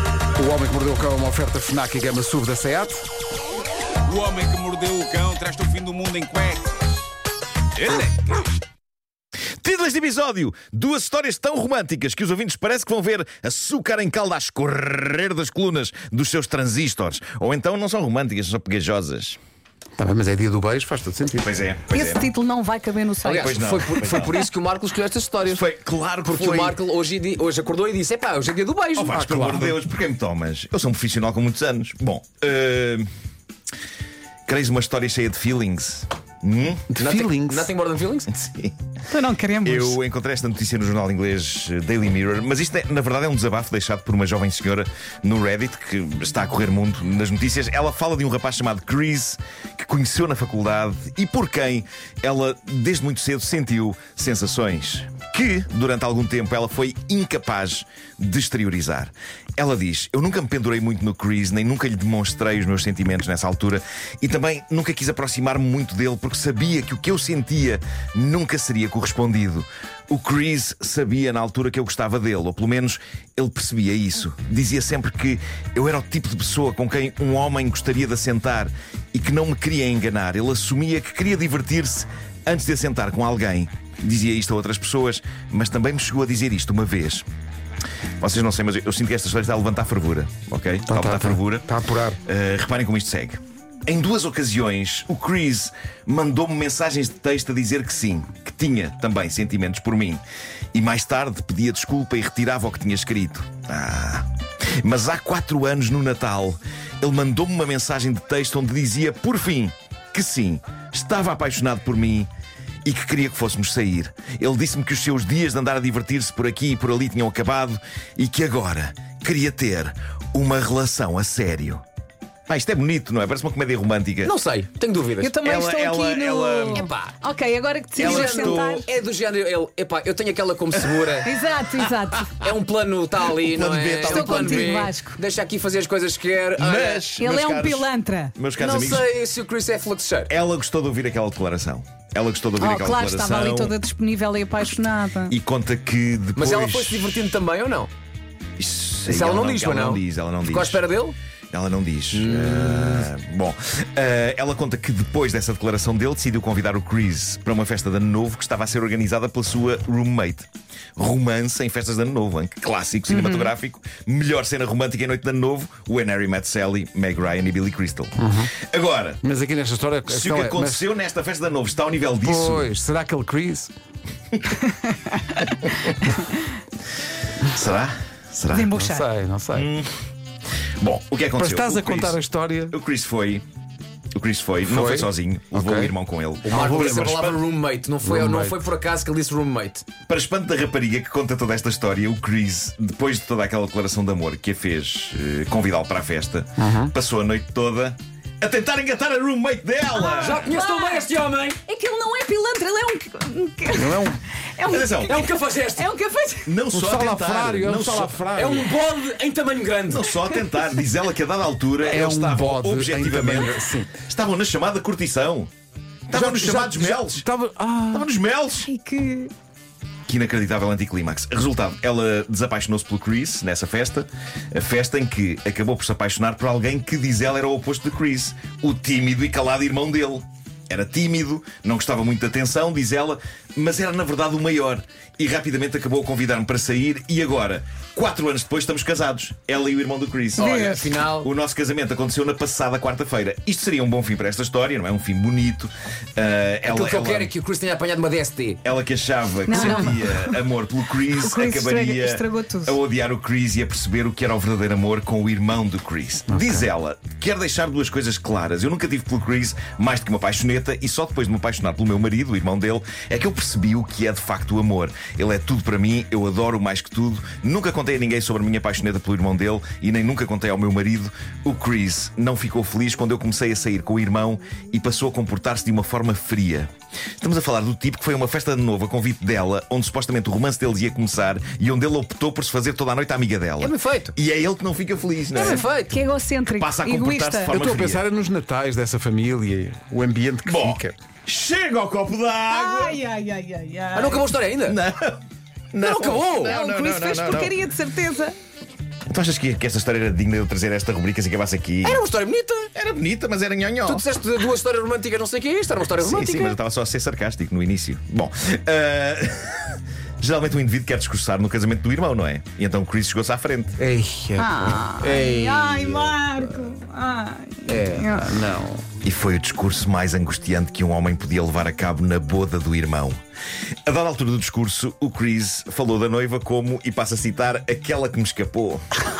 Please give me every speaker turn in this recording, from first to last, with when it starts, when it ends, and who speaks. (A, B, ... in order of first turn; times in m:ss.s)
0:00.4-0:03.0 A
0:04.0-0:07.1 B
0:07.8-0:08.6 B
0:09.6-0:19.4 C
0:20.0-0:21.5 A
0:21.4-0:22.3 C
0:21.9-0:23.6 D
0:23.2-0:25.6 E
0:23.4-0:24.3 C
0:25.4-0:26.8 C
0:26.3-0:29.1 E
0:29.0-0:33.1 C
0:29.1-0:29.8 A
0:34.5-0:36.8 C
0:36.9-0:37.7 A
0:36.9-0:38.3 E
0:38.3-0:38.8 C
0:39.1-0:40.0 D
0:39.6-1:27.2 C
1:28.2-1:31.7 C
1:30.9-1:32.2 A
1:32.3-1:40.2 C
1:40.7-1:44.3 C
1:44.8-1:52.3 C
1:52.8-2:01.8 C
2:02.5-2:04.3 C
2:04.2-2:05.4 E
2:05.2-2:08.9 D
2:05.4-2:06.9 C
2:06.7-2:07.2 E
2:08.0-2:08.8 C
2:08.0-2:11.3 E
2:10.8-2:11.2 C
2:11.2-2:12.4 D
2:12.4-2:17.1 E
2:13.4-2:14.7 C
2:14.1-2:15.2 D
2:16.6-2:19.1 C
2:17.2-2:18.3 D
2:18.6-2:20.3 E
2:20.3-2:23.8 C
2:22.6-2:25.3 D
2:25.3-2:27.2 C
2:26.4-2:27.9 E
2:28.6-2:30.9 C
2:29.1-2:31.2 E
2:31.5-2:49.2 C
2:32.1-2:33.1 E
2:43.1-2:43.5 D
2:48.2-2:48.5 A
2:49.2-2:50.8 A
2:50.1-2:52.7 C
2:52.2-2:53.7 A
2:57.5-2:58.8 C
2:58.5-2:59.0 D
2:58.6-2:59.7 A
2:59.5-2:59.9 C
3:00.8-3:02.2 C
3:01.4-3:02.8 A
3:02.7-3:03.4 C
3:04.2-3:07.4 C
3:04.7-3:05.9 A
3:06.4-3:07.2 A
3:06.5-3:09.9 E
3:08.0-3:08.6 A
3:10.1-3:20.5 C
3:16.6-3:16.9 A
3:19.9-3:21.1 D
3:20.1-3:21.6 E
3:21.7-3:26.6 D
3:23.8-3:24.2 A
3:24.7-3:25.2 C
3:25.0-3:25.9 E
3:26.4-3:28.2 C
3:26.7-3:28.7 A
3:28.3-3:30.1 E
3:29.9-3:35.5 C
3:31.8-3:33.9 A
3:36.1-3:37.3 C
3:36.1-3:36.8 E
3:36.6-3:38.1 A
3:37.9-3:38.7 C
3:38.6-3:39.3 D
3:40.1-4:00.5 C
4:00.4-4:01.3 E
4:00.4-4:00.8 D
4:01.2-4:07.3 C
4:06.7-4:08.6 E
4:08.6-4:45.7 C
4:09.5-4:10.2 D
4:11.2-4:12.8 D
4:16.3-4:16.6 A
4:43.6-4:44.2 E
4:45.3-4:46.0 E
4:45.4-4:47.6 D
4:46.4-4:48.0 C
4:47.5-4:51.0 A
4:50.4-4:53.0 C
4:52.5-4:54.3 D
4:54.0-4:54.8 E
4:54.6-4:55.2 C
4:55.7-4:57.6 C
4:55.8-4:56.6 E
4:56.5-4:58.4 D
4:59.1-5:02.0 C
5:01.8-5:02.7 E
5:02.8-5:04.0 C
5:03.8-5:06.6 E
5:06.0-5:13.8 C
5:13.8-5:14.8 A
5:14.4-5:18.3 D
5:14.6-5:16.2 E
5:17.7-5:18.1 E
5:18.2-5:18.8 A
5:19.0-5:23.2 C
5:23.9-5:28.8 C